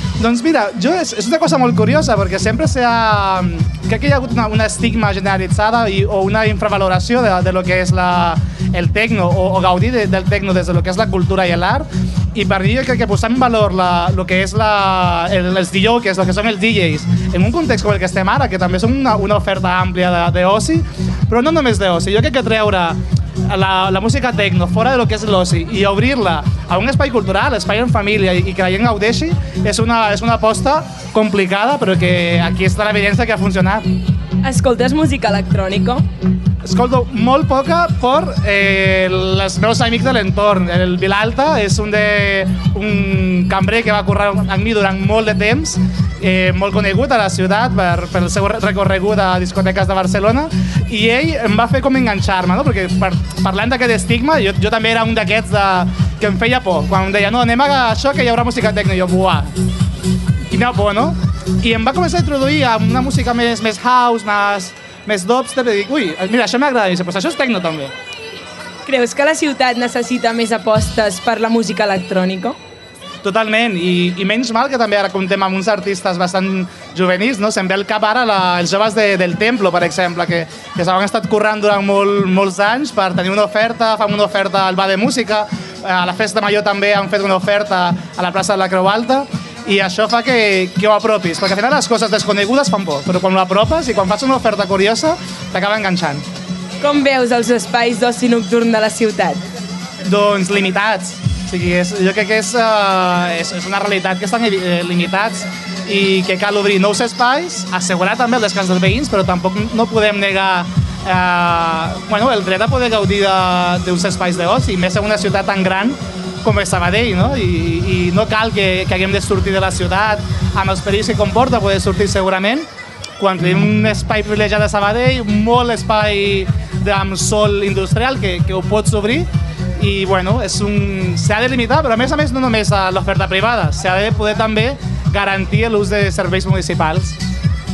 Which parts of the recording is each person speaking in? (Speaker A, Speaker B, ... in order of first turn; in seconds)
Speaker A: 0.2-33.9, 36.6-59.5, 60.5-67.9, 73.2-96.2, 100.0-122.7, 123.2-137.2
Speaker B: 34.4-36.0, 68.8-72.6, 96.8-99.4